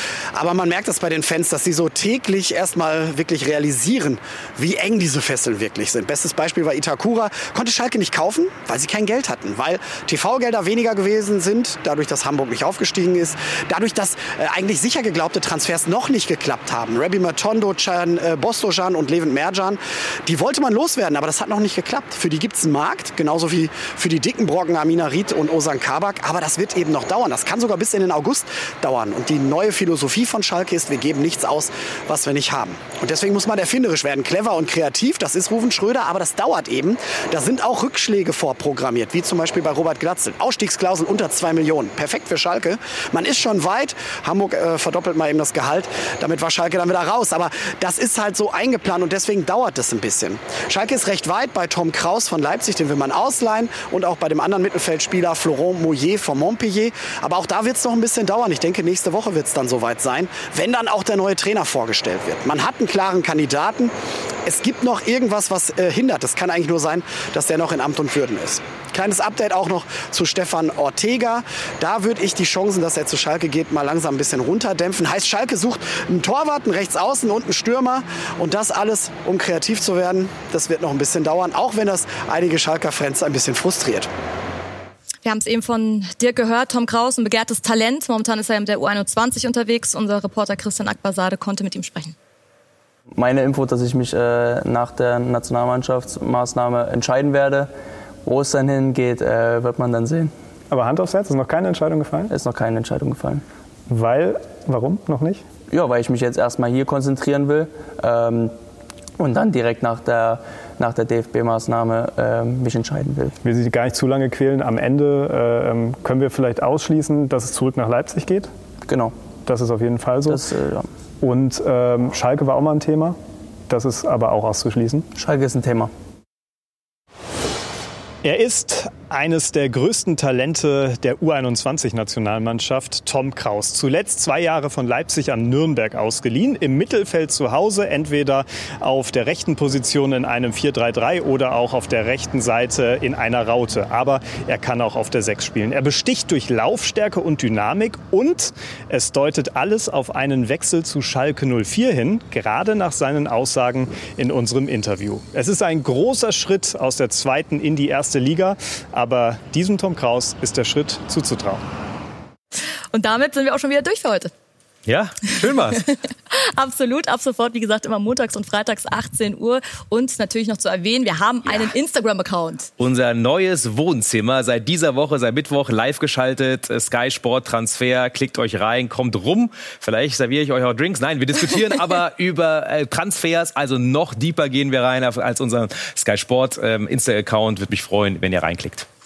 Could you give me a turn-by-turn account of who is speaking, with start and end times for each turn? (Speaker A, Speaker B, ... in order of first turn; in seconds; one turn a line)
Speaker A: 0.3-63.9
Speaker A: 64.5-84.1
Speaker B: 85.2-92.2
Speaker C: 93.2-97.7
Speaker C: 98.2-100.3
Speaker D: 100.7-102.3
Speaker C: 102.3-103.4
Speaker D: 103.9-105.4
Speaker C: 105.7-108.5
Speaker C: 109.2-113.4
Speaker D: 113.4-118.5
Speaker C: 118.9-119.2
Speaker D: 119.5-120.5
Speaker C: 120.3-120.9
Speaker D: 121.2-123.2
Speaker D: 123.7-125.1
Speaker C: 125.2-125.9
Speaker D: 128.2-161.6
Speaker B: 162.9-164.3
Speaker E: 164.9-165.9
Speaker B: 166.3-172.7
Speaker E: 172.8-188.9